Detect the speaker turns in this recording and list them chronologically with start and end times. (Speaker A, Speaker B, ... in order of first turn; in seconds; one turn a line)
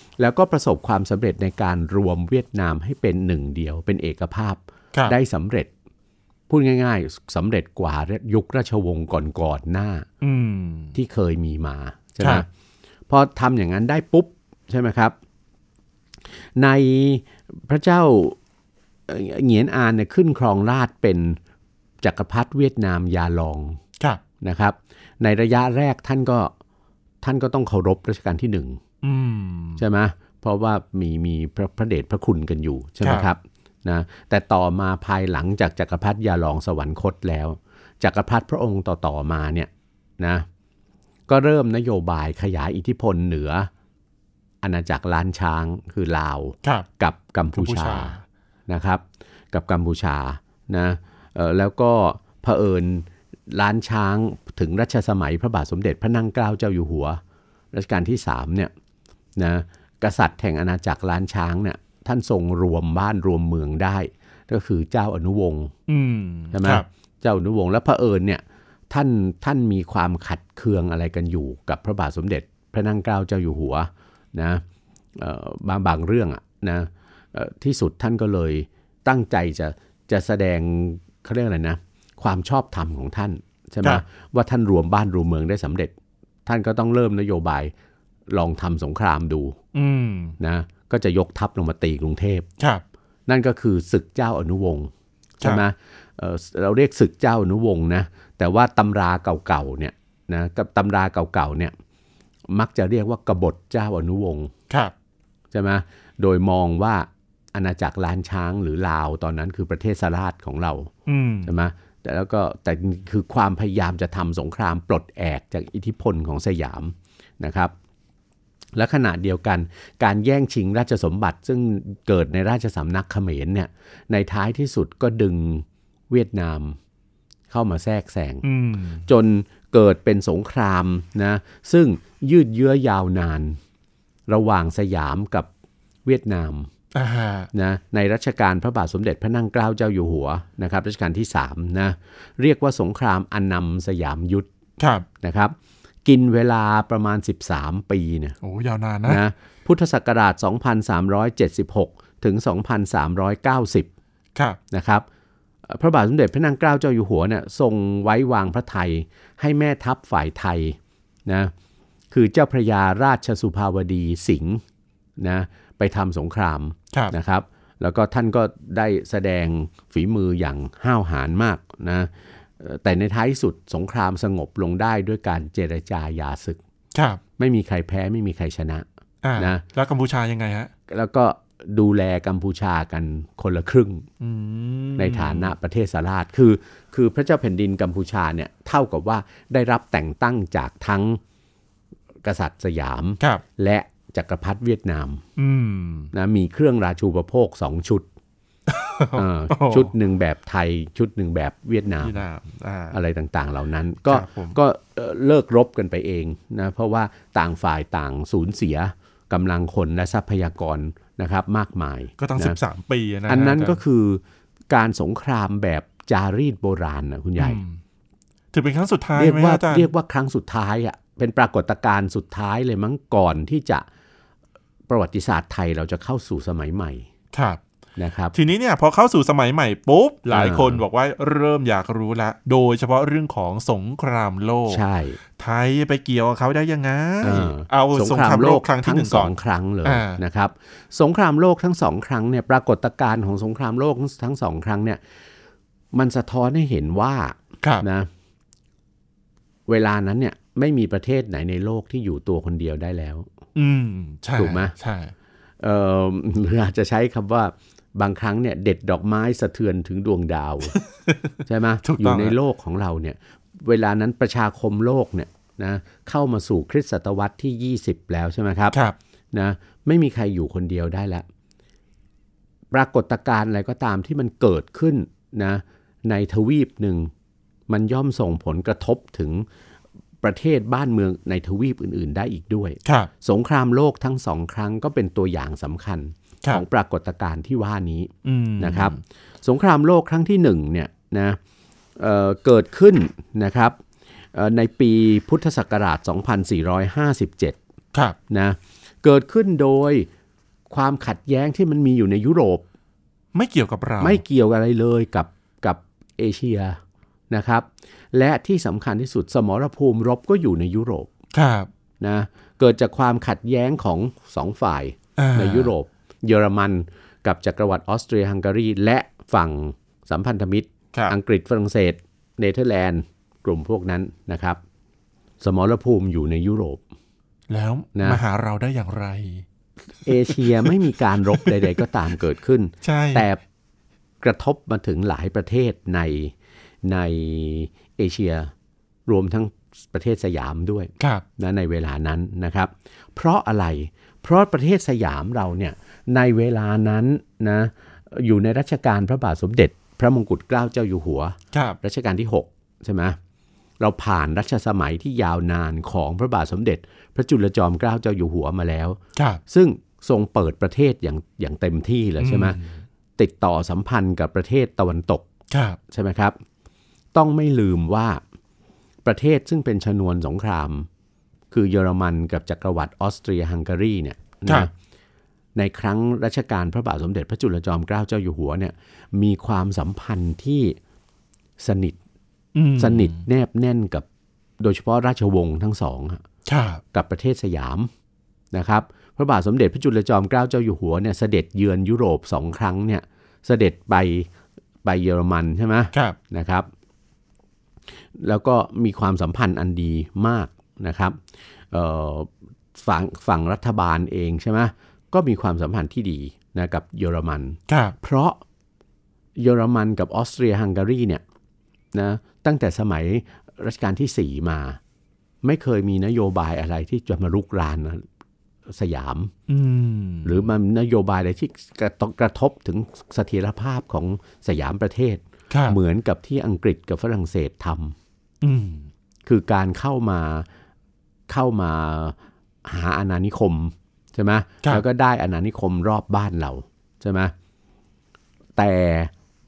Speaker A: 0.2-5.7
Speaker A: 6.5-10.1
Speaker B: 10.2-10.9
Speaker A: 10.9-12.5
Speaker B: 12.2-12.4
Speaker A: 13.1-15.1
Speaker A: 16.6-18.4
Speaker A: 19.1-21.4
Speaker A: 22.0-23.8
Speaker A: 24.4-26.5
Speaker A: 27.2-28.8
Speaker B: 29.0-29.8
Speaker A: 29.8-40.5
Speaker B: 33.0-33.3
Speaker A: 41.3-43.7
Speaker A: 44.6-48.1
Speaker B: 47.5-48.2
Speaker A: 48.7-57.2
Speaker A: 57.7-58.7
Speaker A: 59.4-65.7
Speaker B: 65.9-66.8
Speaker A: 66.5-74.6
Speaker A: 75.2-85.9
Speaker A: 86.5-87.7
Speaker A: 88.3-89.6
Speaker B: 89.7-90.4
Speaker A: 90.4-92.5
Speaker A: 93.3-94.9
Speaker A: 95.4-101.7
Speaker A: 102.5-104.5
Speaker A: 105.5-110.9
Speaker B: 111.0-111.5
Speaker A: 111.4-117.7
Speaker A: 118.8-126.8
Speaker A: 127.5-128.4
Speaker B: 128.4-129.1
Speaker A: 129.0-133.6
Speaker A: 134.3-135.5
Speaker A: 136.1-136.7
Speaker B: 136.9-137.5
Speaker A: 137.5-144.5
Speaker B: 144.8-145.1
Speaker A: 145.2-148.3
Speaker B: 148.4-149.2
Speaker A: 149.0-153.9
Speaker A: 154.7-155.0
Speaker A: 155.7-161.5
Speaker A: 162.1-164.6
Speaker A: 165.2-176.6
Speaker B: 176.9-177.2
Speaker A: 177.4-178.8
Speaker B: 179.2-180.7
Speaker A: 179.4-179.6
Speaker A: 180.9-184.1
Speaker B: 184.2-185.5
Speaker A: 185.0-191.2
Speaker A: 192.2-195.2
Speaker B: 195.4-196.1
Speaker A: 196.1-198.1
Speaker B: 198.7-199.9
Speaker A: 199.1-202.1
Speaker B: 202.0-203.0
Speaker A: 202.9-212.6
Speaker B: 204.1-204.6
Speaker B: 212.2-213.8
Speaker A: 213.3-217.6
Speaker B: 217.4-217.8
Speaker B: 218.5-219.9
Speaker A: 219.2-223.8
Speaker A: 224.9-227.1
Speaker B: 227.3-227.6
Speaker A: 228.0-228.3
Speaker B: 228.3-234.8
Speaker A: 230.3-230.8
Speaker A: 234.7-235.2
Speaker B: 235.3-240.2
Speaker A: 237.2-245.0
Speaker A: 245.9-248.1
Speaker A: 249.7-253.3
Speaker B: 253.5-255.1
Speaker A: 254.3-254.7
Speaker A: 255.6-260.8
Speaker B: 260.9-262.4
Speaker A: 261.4-268.8
Speaker A: 269.3-271.2
Speaker A: 272.7-277.1
Speaker A: 277.7-279.4
Speaker A: 280.2-291.4
Speaker B: 282.8-283.1
Speaker B: 288.2-289.0
Speaker A: 292.0-293.8
Speaker A: 294.3-297.6
Speaker A: 298.3-300.1
Speaker A: 300.7-302.6
Speaker B: 303.3-304.2
Speaker A: 304.0-311.1
Speaker B: 311.3-311.7
Speaker A: 312.0-324.6
Speaker B: 315.2-315.7
Speaker A: 325.4-326.8
Speaker B: 327.5-329.4
Speaker A: 327.9-328.2
Speaker A: 330.1-333.4
Speaker B: 330.3-330.7
Speaker B: 331.3-331.6
Speaker B: 332.8-333.3
Speaker A: 334.2-338.5
Speaker A: 339.1-353.2
Speaker B: 351.5-351.8
Speaker A: 353.8-362.6
Speaker B: 359.1-359.4
Speaker B: 362.2-362.8
Speaker A: 363.2-365.2
Speaker B: 365.5-365.8
Speaker A: 365.9-366.4
Speaker A: 367.1-368.2
Speaker A: 369.0-370.9
Speaker A: 371.5-374.7
Speaker A: 375.6-380.8
Speaker A: 381.6-382.0
Speaker B: 382.5-383.2
Speaker A: 382.8-384.1
Speaker A: 384.6-386.2
Speaker B: 386.4-386.8
Speaker A: 386.9-387.9
Speaker A: 388.5-394.3
Speaker A: 394.8-396.7
Speaker A: 398.1-401.2
Speaker A: 401.7-408.4
Speaker B: 407.7-407.9
Speaker A: 409.4-411.2
Speaker A: 411.9-414.8
Speaker A: 415.4-418.0
Speaker A: 418.7-419.3
Speaker B: 419.5-420.4
Speaker A: 420.2-427.9
Speaker B: 425.5-425.8
Speaker B: 428.4-428.9
Speaker A: 429.2-430.5
Speaker A: 431.3-437.3
Speaker A: 438.6-439.1